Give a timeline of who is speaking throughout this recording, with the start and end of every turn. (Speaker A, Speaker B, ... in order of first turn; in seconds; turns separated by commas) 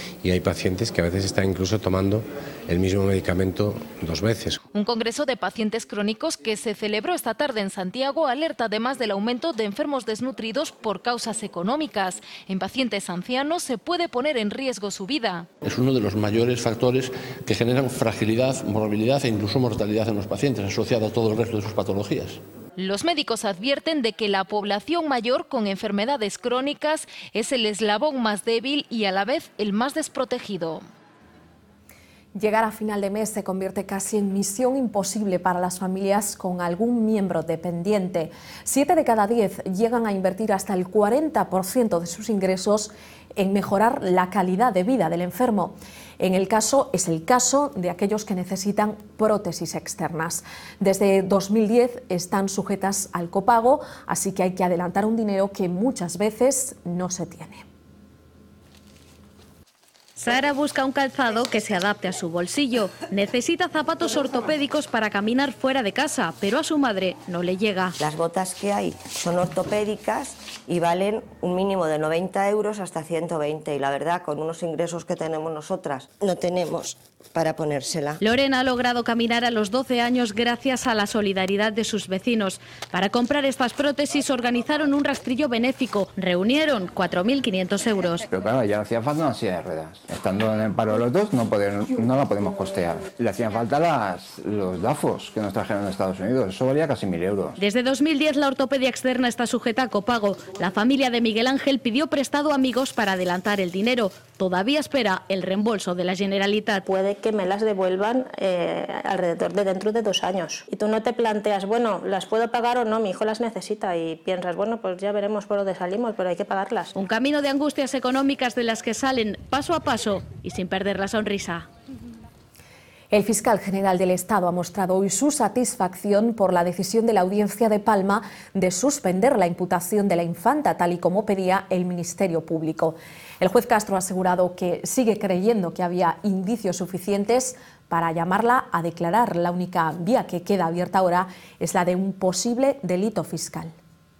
Speaker A: 0.2-4.6, Speaker B: 4.7-15.5, Speaker C: 17.6-22.2, Speaker B: 22.8-30.8, Speaker D: 32.4-57.6, Speaker E: 60.2-67.9, Speaker F: 68.0-78.2, Speaker E: 78.2-88.2, Speaker G: 88.3-97.5, Speaker E: 97.6-106.8, Speaker H: 106.8-116.9, Speaker E: 117.0-121.7, Speaker D: 123.1-143.7